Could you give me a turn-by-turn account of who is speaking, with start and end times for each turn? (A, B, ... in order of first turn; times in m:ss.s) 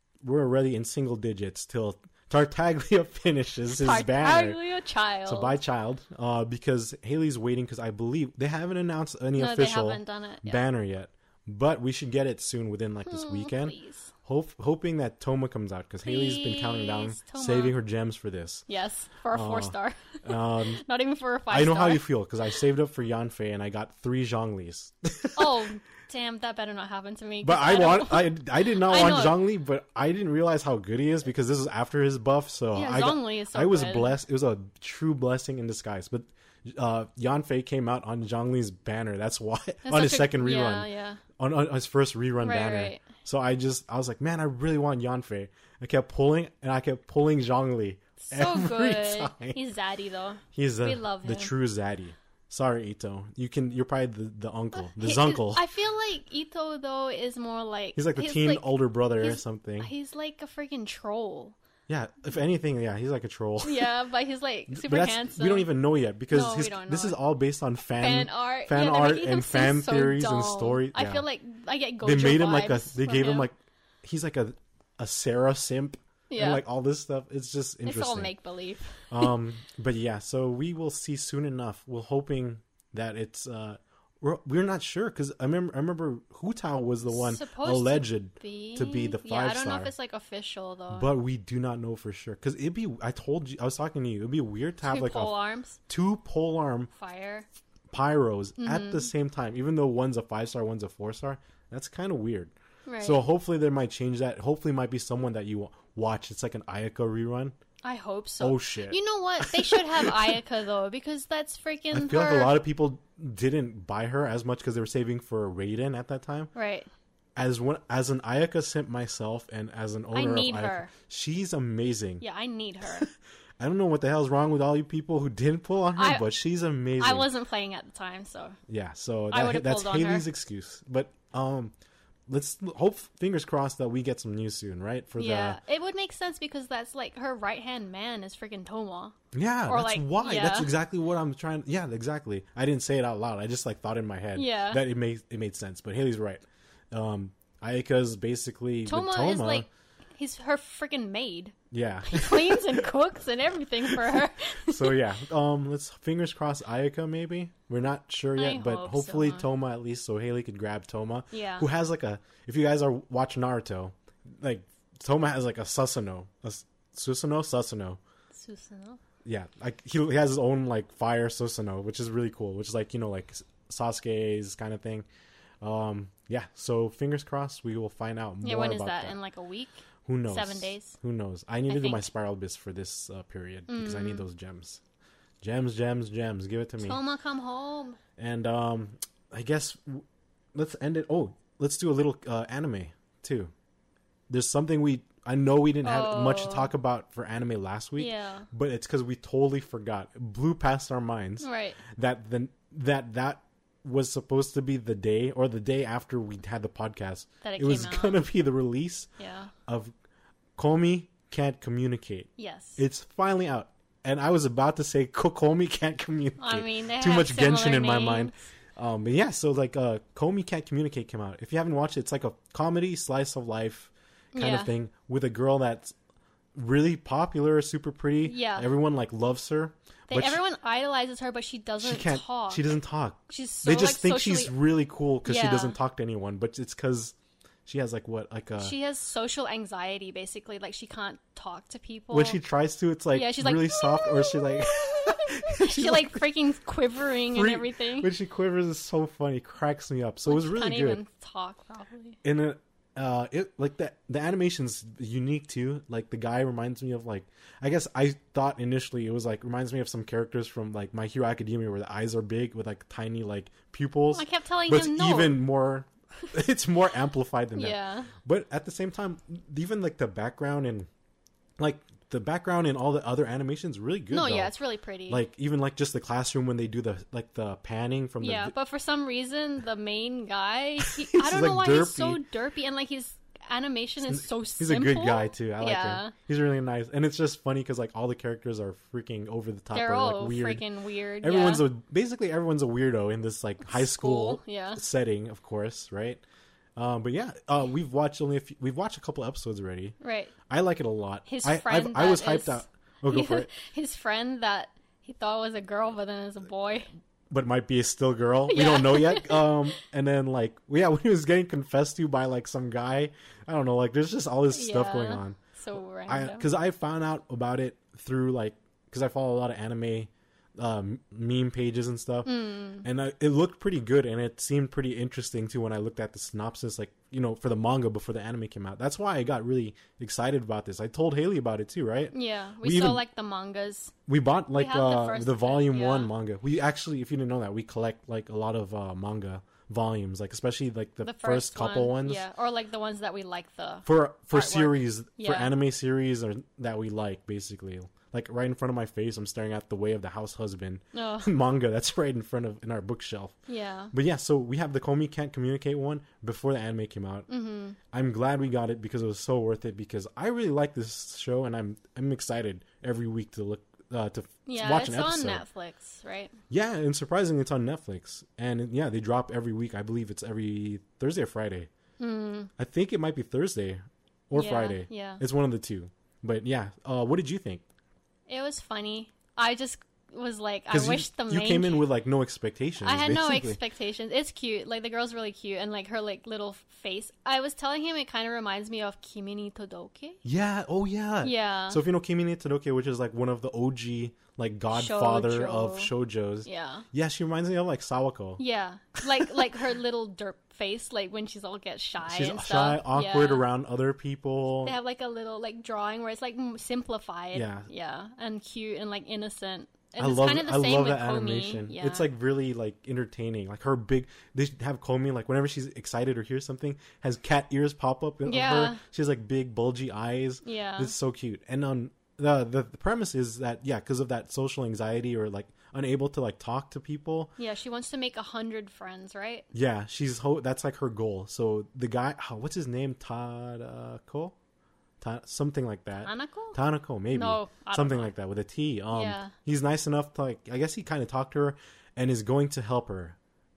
0:00.2-0:04.6 A
0:03.8-0:05.6 B
0:05.3-0:18.6 A
0:09.4-0:10.6 B
0:13.0-0:14.1 B
0:16.0-0:17.8 B
0:18.7-0:22.0 B
0:19.3-0:20.8 A
0:21.5-0:25.6 A
0:25.4-0:29.4 B
0:27.4-0:49.6 A
0:32.7-0:34.1 B
0:39.8-0:41.2 B
0:42.4-0:43.0 B
0:48.2-0:51.5 B
0:50.5-0:55.6 A
0:54.9-1:01.6 B
0:58.0-0:59.9 A
1:01.9-1:03.9 A
1:03.6-1:05.7 B
1:04.7-1:11.3 A
1:06.3-1:07.2 B
1:08.0-1:13.5 B
1:12.0-1:18.3 A
1:16.3-1:16.6 B
1:17.8-1:19.3 B
1:19.1-1:29.9 A
1:27.1-1:31.1 B
1:30.9-1:35.3 A
1:34.8-1:35.8 B
1:35.9-1:36.9 A
1:36.9-1:37.5 B
1:37.9-1:47.6 A
1:38.6-1:39.1 B
1:42.9-1:43.2 B
1:47.8-1:52.6 B
1:48.4-1:50.4 A
1:51.9-1:56.5 A
1:56.5-1:56.9 B
1:57.4-2:02.2 A
2:00.1-2:00.9 B
2:02.2-2:03.0 B
2:02.8-2:07.3 A
2:06.0-2:06.3 B
2:07.0-2:08.6 B
2:08.7-2:11.7 A
2:09.3-2:10.3 B
2:12.3-2:15.6 A
2:15.2-2:19.2 B
2:19.3-2:29.7 A
2:19.7-2:20.7 B
2:24.4-2:24.8 B
2:28.9-2:35.0 B
2:31.7-2:32.9 A
2:33.9-2:48.0 A
2:38.4-2:39.4 B
2:41.3-2:41.7 B
2:48.3-2:49.0 B
2:49.2-2:55.1 A
2:55.6-2:59.2 A
2:58.4-2:59.8 B
3:00.1-3:04.8 A
3:00.3-3:01.0 B
3:01.7-3:02.1 B
3:03.7-3:04.2 B
3:05.4-3:07.0 A
3:06.8-3:08.0 B
3:08.2-3:13.5 A
3:14.3-3:29.1 A
3:15.8-3:16.7 B
3:18.0-3:18.5 B
3:21.4-3:21.8 B
3:27.4-3:28.2 B
3:29.2-3:29.5 B
3:29.7-3:29.9 A
3:30.6-3:46.0 A
3:32.4-3:32.8 B
3:36.4-3:38.4 B
3:44.3-3:44.7 B
3:46.6-3:50.4 A
3:48.2-3:48.7 B
3:50.1-3:52.7 B
3:51.8-3:57.2 A
3:53.3-3:54.5 B
3:55.2-3:55.8 B
3:57.7-3:58.7 A
3:58.6-4:02.4 B
4:02.1-4:06.2 A
4:03.1-4:08.1 B
4:07.3-4:11.0 A
4:10.3-4:12.2 B
4:12.2-4:30.9 A
4:24.1-4:25.4 B
4:27.6-4:28.1 B
4:31.6-4:34.6 A
4:34.1-4:35.2 B
4:35.1-4:38.5 A
4:38.2-4:46.1 B
4:40.8-4:42.2 A
4:44.0-4:50.6 A
4:49.7-4:51.6 B
4:51.2-4:56.2 A
4:53.7-4:54.8 B
4:56.8-5:00.0 A
5:00.0-5:00.3 B
5:00.5-5:03.5 A
5:01.3-5:06.9 B
5:07.3-5:15.4 A
5:08.5-5:09.7 B
5:14.5-5:16.5 B
5:16.1-5:22.3 A
5:22.2-5:22.9 B
5:22.8-5:33.0 A
5:32.1-5:33.9 B
5:34.1-5:42.3 A
5:34.5-5:36.1 B
5:41.0-5:45.5 B
5:43.8-5:53.4 A
5:50.9-5:51.3 B
5:53.5-5:53.9 B
5:53.9-5:57.3 A
5:57.3-5:57.8 B
5:57.9-6:05.4 A
6:04.5-6:06.3 B
6:06.5-6:11.7 A
6:12.0-6:12.5 B
6:12.6-6:17.6 A
6:14.4-6:15.2 B
6:18.3-6:21.8 B
6:20.7-6:23.6 A
6:22.8-6:30.2 B
6:30.2-6:38.4 A
6:31.2-6:31.8 B
6:34.7-6:35.9 B
6:36.4-6:36.8 B
6:38.4-6:43.4 B
6:42.0-6:44.8 A
6:44.6-6:52.0 B
6:47.3-6:47.7 A
6:50.0-7:07.3 A
6:58.3-6:58.8 B
7:00.4-7:00.9 B
7:07.4-7:09.5 B
7:09.5-7:14.4 A
7:15.0-7:23.2 A
7:16.0-7:16.6 B
7:17.1-7:18.1 B
7:18.9-7:19.3 B